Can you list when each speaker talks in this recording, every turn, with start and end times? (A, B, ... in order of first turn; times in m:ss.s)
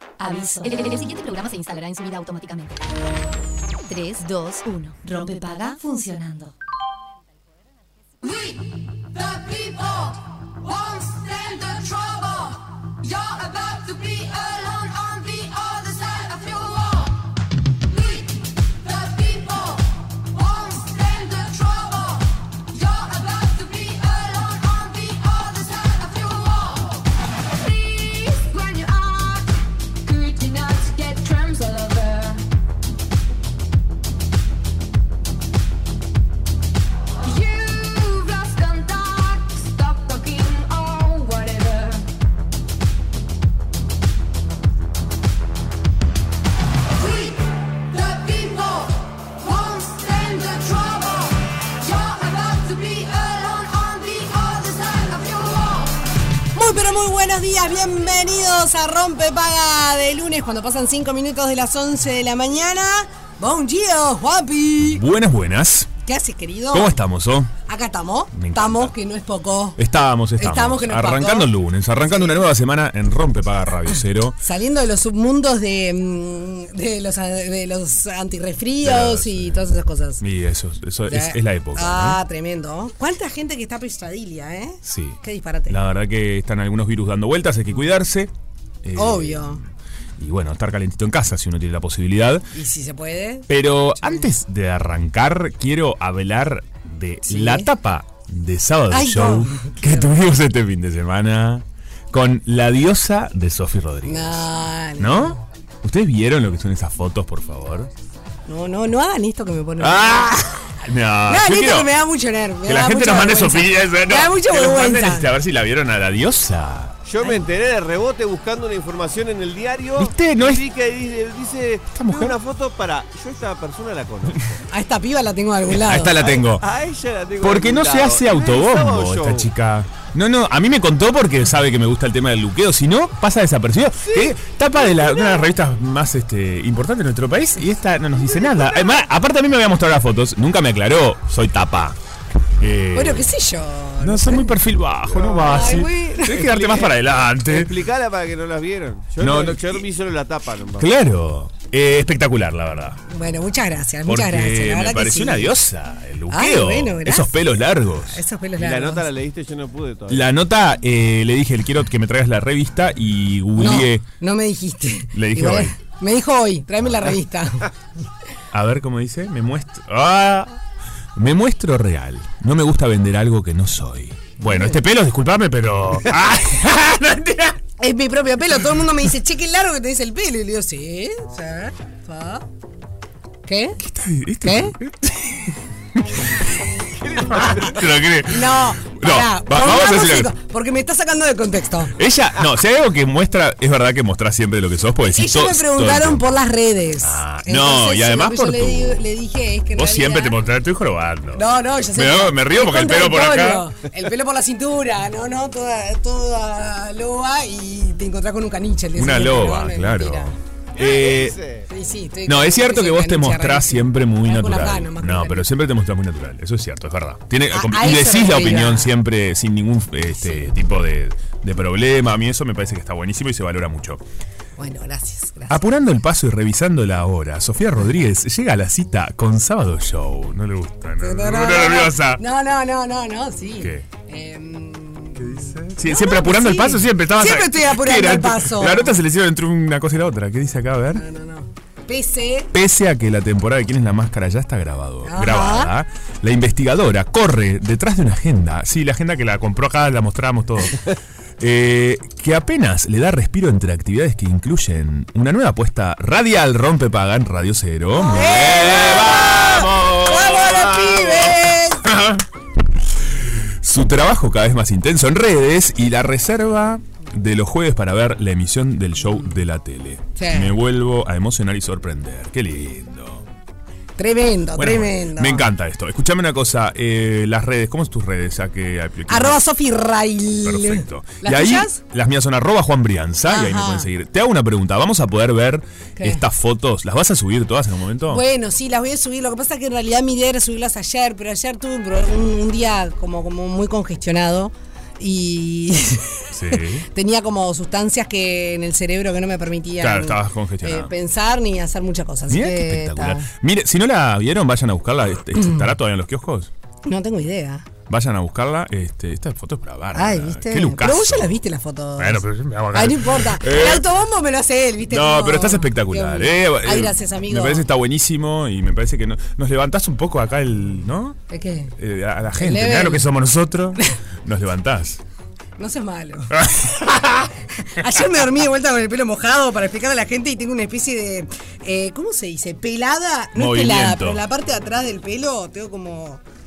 0:00.2-0:02.8 A
0:03.9-0:06.5 A
0:08.2-0:17.2 B
0:17.9-0:32.4 B
0:37.2-0:42.0 B
0:46.9-0:55.9 B
0:56.5-1:05.0 C
1:04.8-1:05.9 D
1:06.0-1:07.0 C
1:06.7-1:07.5 D
1:07.6-1:09.8 C
1:08.3-1:08.9 D
1:09.8-1:14.4 D
1:10.4-1:12.4 C
1:14.4-1:20.2 C
1:18.8-1:19.6 D
1:20.2-1:22.2 D
1:21.1-1:25.8 C
1:24.8-1:28.3 D
1:28.8-1:29.7 D
1:29.0-1:29.6 C
1:30.2-1:32.5 D
1:32.5-1:34.3 C
1:33.5-1:47.9 D
1:37.2-1:37.7 C
1:38.9-1:40.1 C
1:44.0-1:45.4 C
1:48.5-1:55.3 C
1:49.8-1:51.9 D
1:52.6-1:56.9 D
1:57.0-2:04.6 E
2:00.0-2:00.6 D
2:01.9-2:02.4 D
2:04.7-2:06.3 C
2:05.7-2:06.6 D
2:06.2-2:09.5 E
2:07.4-2:22.0 D
2:18.5-2:18.8 E
2:22.6-2:23.3 D
2:22.9-2:24.5 C
2:24.0-2:27.8 D
2:25.1-2:25.8 E
2:25.4-2:26.5 C
2:26.5-2:30.9 E
2:29.2-2:29.8 D
2:30.8-2:33.0 D
2:33.1-2:35.5 C
2:34.0-2:38.2 D
2:36.3-2:37.4 C
2:38.0-2:39.1 C
2:38.6-2:40.3 E
2:40.1-2:44.0 D
2:43.6-2:47.7 C
2:45.1-2:45.8 D
2:48.5-2:50.6 D
2:51.2-2:57.6 D
2:54.4-2:54.8 C
2:57.8-3:02.4 C
3:03.4-3:03.8 C
3:03.8-3:10.3 D
3:04.4-3:04.7 C
3:08.3-3:11.9 C
3:12.0-3:16.3 D
3:15.1-3:20.4 C
3:17.0-3:19.0 D
3:19.7-3:23.7 D
3:21.3-3:31.2 C
3:28.9-3:31.4 D
3:30.8-3:31.6 E
3:31.7-3:35.5 C
3:32.2-3:44.0 D
3:37.5-3:38.9 C
3:40.1-3:40.5 C
3:44.6-3:45.6 C
3:45.5-3:52.2 D
3:51.0-3:59.0 C
3:53.6-3:53.9 D
3:55.2-4:01.0 D
4:00.9-4:02.5 C
4:02.5-4:10.8 D
4:05.0-4:05.7 C
4:11.4-4:22.2 D
4:17.9-4:21.9 C
4:23.0-4:33.2 D
4:30.2-4:30.6 C
4:34.0-4:35.5 C
4:34.6-4:39.4 D
4:39.1-4:41.8 C
4:40.4-4:48.2 D
4:43.3-4:43.9 C
4:46.0-4:46.2 C
4:48.1-5:03.3 C
4:56.3-4:56.8 D
4:59.8-5:00.9 D
5:02.3-5:06.5 D
5:05.4-5:05.7 C
5:06.8-5:07.7 C
5:07.9-5:11.4 D
5:09.9-5:17.6 C
5:12.0-5:13.9 D
5:14.9-5:21.2 D
5:21.3-5:21.7 C
5:21.8-5:25.0 D
5:22.4-5:23.1 C
5:25.6-5:36.2 C
5:26.3-5:26.9 D
5:33.3-5:34.2 D